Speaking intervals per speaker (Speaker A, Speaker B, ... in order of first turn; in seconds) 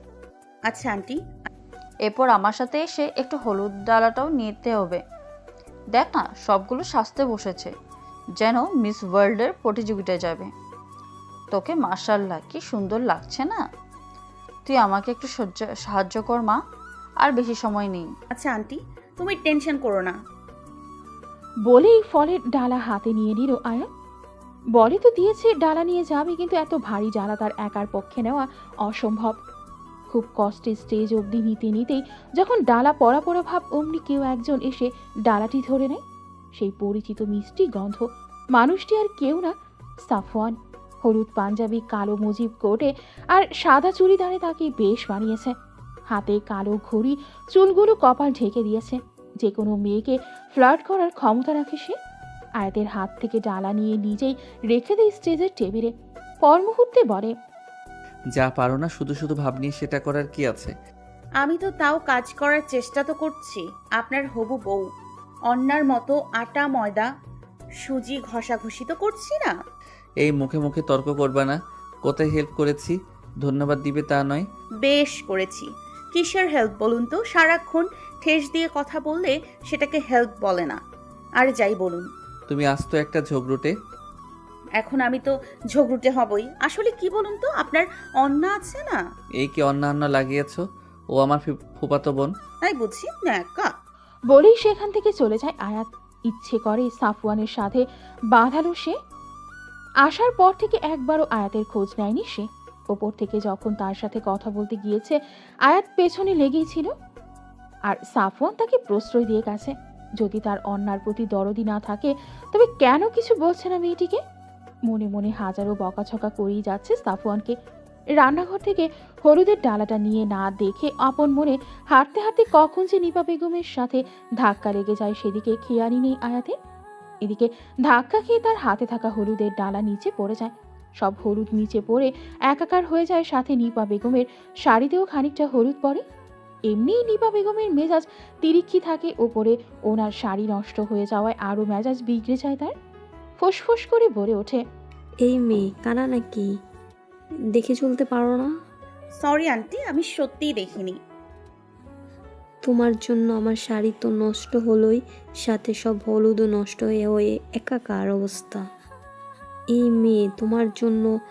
Speaker A: 0.7-1.3, 18.3-20.1, 61.4-64.8, 65.5-67.1, 67.8-69.6, 74.8-80.8, 81.4-82.1, 84.8-89.0, 92.6-93.7, 149.2-151.0
Speaker B: 2.0-5.0, 5.9-7.7, 8.4-10.5, 11.5-13.6, 14.7-16.6, 17.2-18.1
Speaker C: 21.7-23.9, 24.8-29.4, 30.1-36.0, 36.5-39.5, 40.1-45.5, 46.1-51.9, 52.6-55.9, 56.4-57.3, 94.3-99.0, 100.0-106.9, 107.8-114.2, 114.9-117.5, 118.2-126.5, 127.2-136.0, 136.7-142.7, 143.4-144.6
Speaker D: 58.3-60.7, 70.2-74.5, 82.5-83.7, 89.4-92.3
Speaker E: 145.2-146.5, 147.5-148.5, 152.6-158.6, 159.7-161.1